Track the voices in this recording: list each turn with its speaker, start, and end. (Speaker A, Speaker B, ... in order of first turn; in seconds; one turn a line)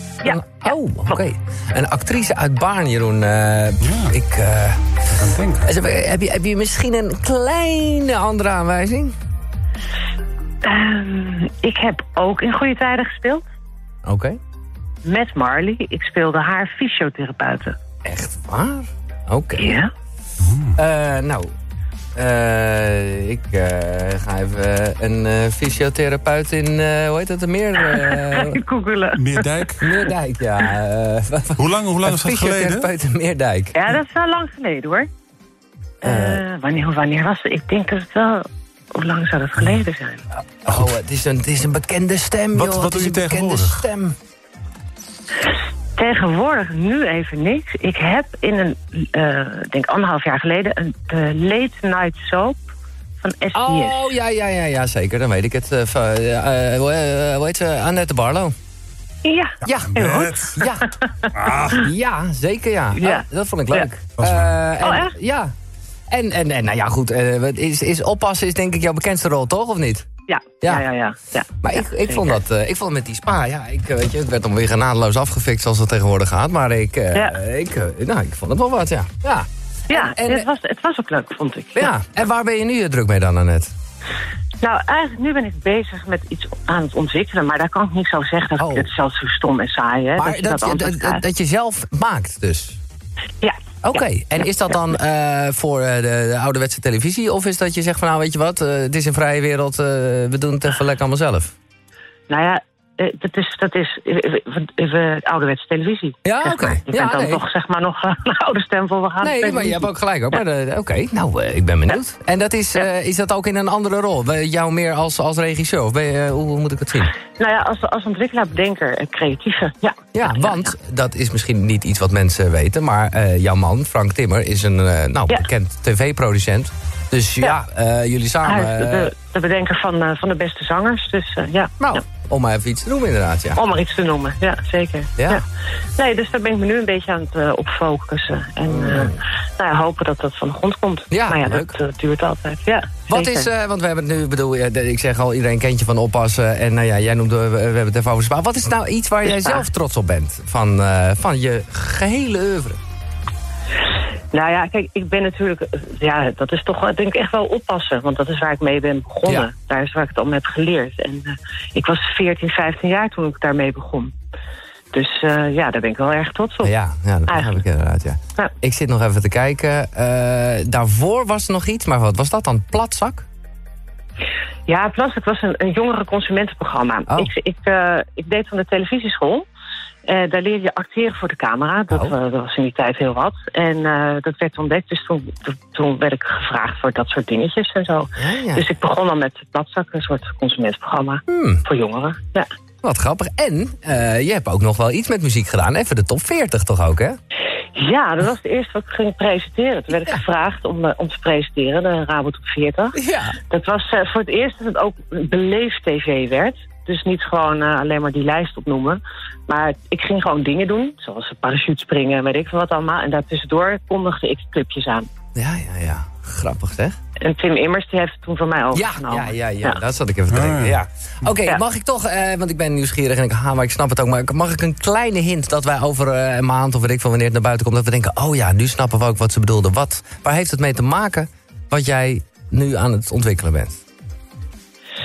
Speaker A: 0.2-5.0
Speaker B: 3.8-4.2
Speaker B: 5.1-5.7
Speaker A: 5.6-9.2
Speaker C: 10.6-13.4
Speaker A: 14.1-14.4
Speaker C: 15.1-17.8
Speaker A: 18.1-19.7
Speaker C: 19.6-19.9
Speaker B: 20.4-20.8
Speaker A: 20.8-21.5
Speaker A: 22.2-28.6
Speaker C: 27.8-30.7
Speaker B: 29.1-29.9
Speaker A: 29.8-33.9
Speaker B: 31.6-32.9
Speaker C: 33.7-35.1
Speaker C: 36.0-40.2
Speaker A: 36.0-36.4
Speaker A: 40.6-44.1
Speaker B: 42.5-43.9
Speaker C: 46.0-52.6
Speaker C: 53.2-54.1
Speaker A: 53.5-58.5
Speaker C: 59.2-60.9
Speaker A: 59.6-60.9
Speaker B: 59.9-60.6
Speaker B: 61.3-61.8
Speaker A: 61.5-65.5
Speaker C: 63.0-63.9
Speaker B: 64.2-64.6
Speaker C: 64.8-65.1
Speaker A: 66.1-70.1
Speaker C: 70.3-72.3
Speaker A: 71.6-80.5
Speaker C: 79.9-81.9
Speaker A: 81.8-83.7
Speaker C: 84.6-91.2
Speaker A: 88.6-88.9
Speaker A: 90.2-92.8
Speaker A: 93.8-101.5
Speaker C: 102.3-109.9
Speaker A: 106.2-107.4
Speaker A: 109.2-117.1
Speaker C: 117.4-120.7
Speaker A: 120.1-129.1
Speaker C: 128.4-132.0
Speaker A: 131.8-133.6
Speaker C: 133.6-135.4
Speaker C: 136.0-143.5
Speaker A: 138.7-139.2
Speaker A: 141.1-141.8
Speaker A: 143.1-152.8
Speaker C: 149.3-149.6
Speaker C: 154.3-164.1
Speaker C: 164.9-166.7
Speaker A: 166.6-173.3
Speaker C: 167.3-167.6
Speaker C: 174.7-179.5
Speaker C: 180.1-192.5
Speaker A: 188.2-188.7
Speaker A: 191.3-191.6
Speaker A: 192.8-197.2
Speaker C: 197.8-203.0
Speaker A: 202.9-203.4
Speaker C: 203.5-215.1
Speaker A: 215.3-217.0
Speaker C: 217.2-219.8
Speaker A: 218.7-233.8
Speaker B: 220.3-220.8